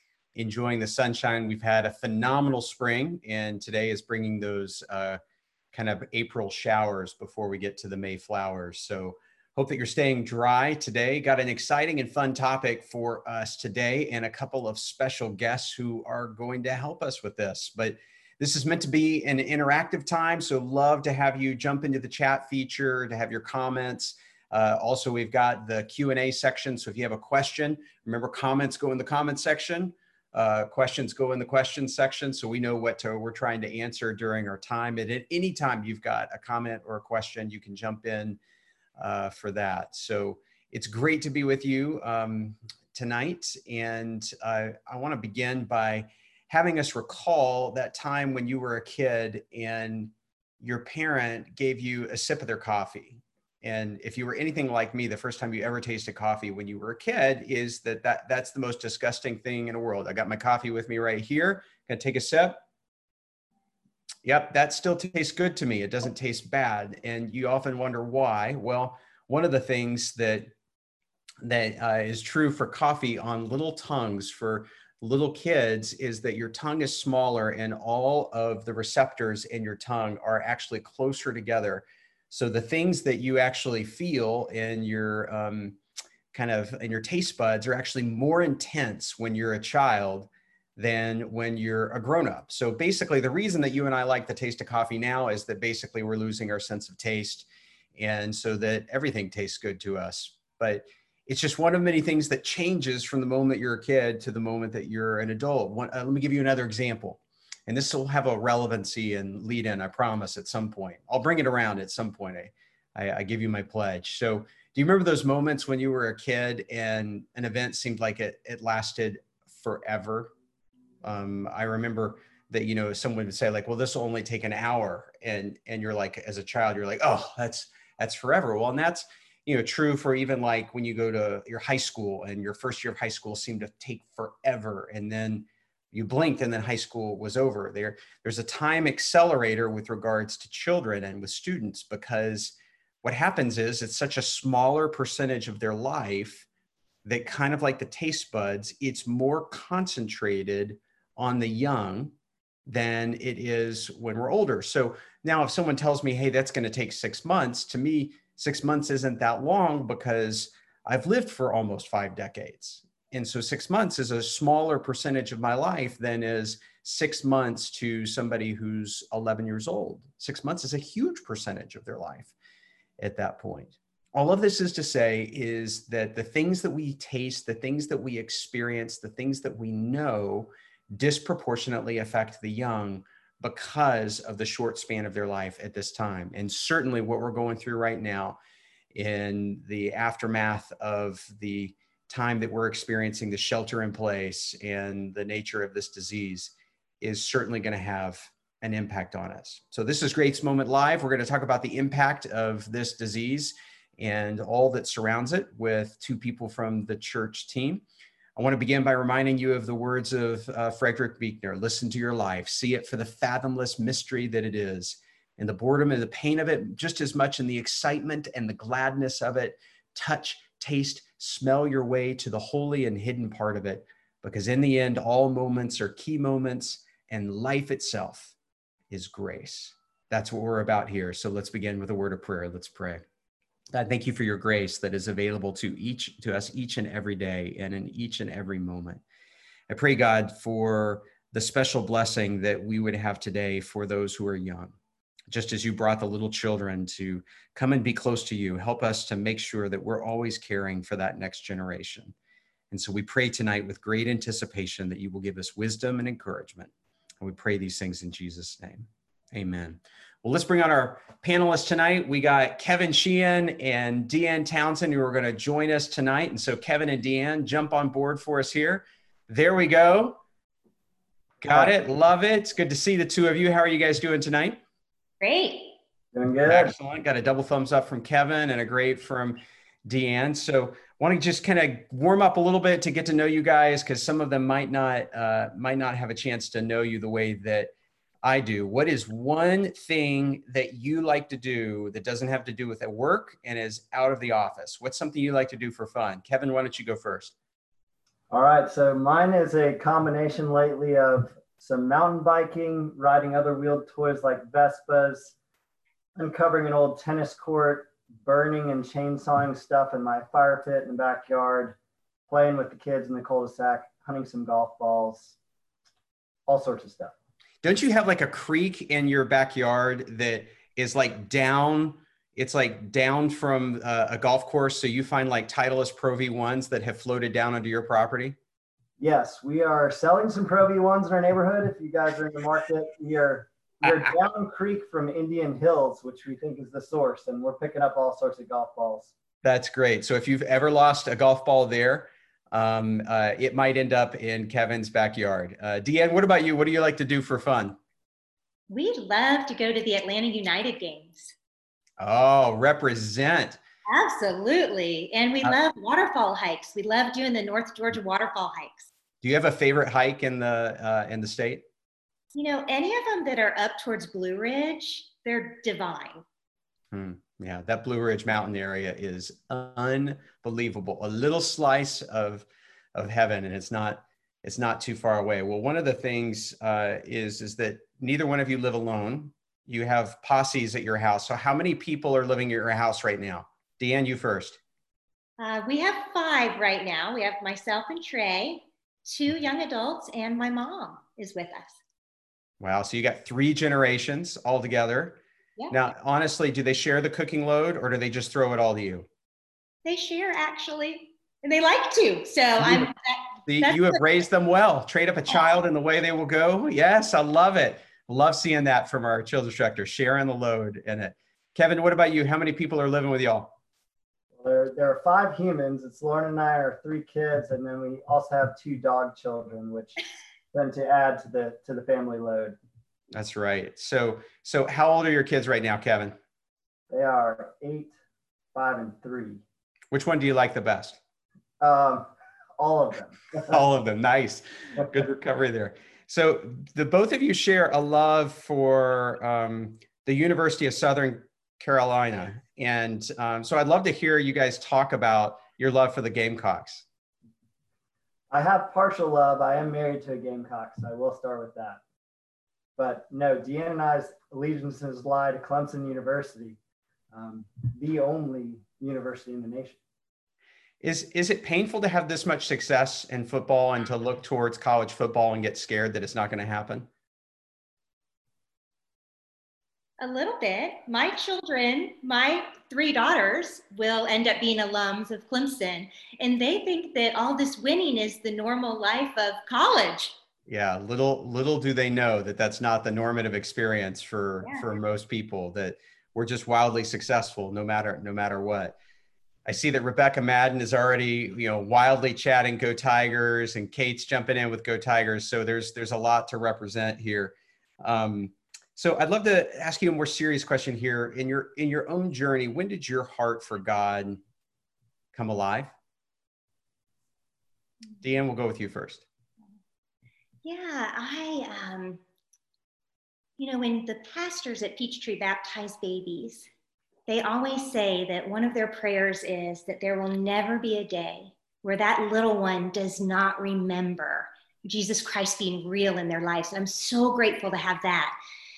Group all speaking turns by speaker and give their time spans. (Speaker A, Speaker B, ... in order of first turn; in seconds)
Speaker A: 0.3-5.2, 5.7-38.4, 39.0-62.6, 64.2-70.5, 71.4-85.8, 86.3-120.3, 121.0-146.5, 147.1-152.2, 152.7-172.3, 173.0-188.4, 188.9-207.8, 208.4-228.3, 228.9-233.1, 233.7-239.0, 239.7-244.8, 245.3-252.1, 252.7-270.2, 271.4-274.6, 276.5-287.7, 288.2-297.4, 317.6-328.4, 339.4-347.8, 352.0-353.6, 359.2-361.7, 366.9-384.6, 392.6-395.2, 395.7-399.1, 402.6-402.9, 403.5-413.6, 423.1-426.2, 429.9-431.0, 433.4-446.9, 460.8-466.9, 480.5-488.8, 489.5-504.2, 505.1-505.7, 508.0-509.1
Speaker B: 275.2-275.7, 348.7-351.3, 353.9-358.9, 362.4-366.2, 385.4-391.8, 399.9-404.0, 470.0-480.2, 510.4-512.0, 513.4-516.5, 517.1-528.2
Speaker C: 276.1-276.7, 298.3-305.4, 306.2-311.8, 312.3-315.4, 316.5-317.1, 329.0-339.1, 414.4-420.0, 420.5-422.6, 426.9-427.9, 428.5-429.4, 431.6-433.6, 448.3-451.8, 452.8-456.6, 457.1-459.8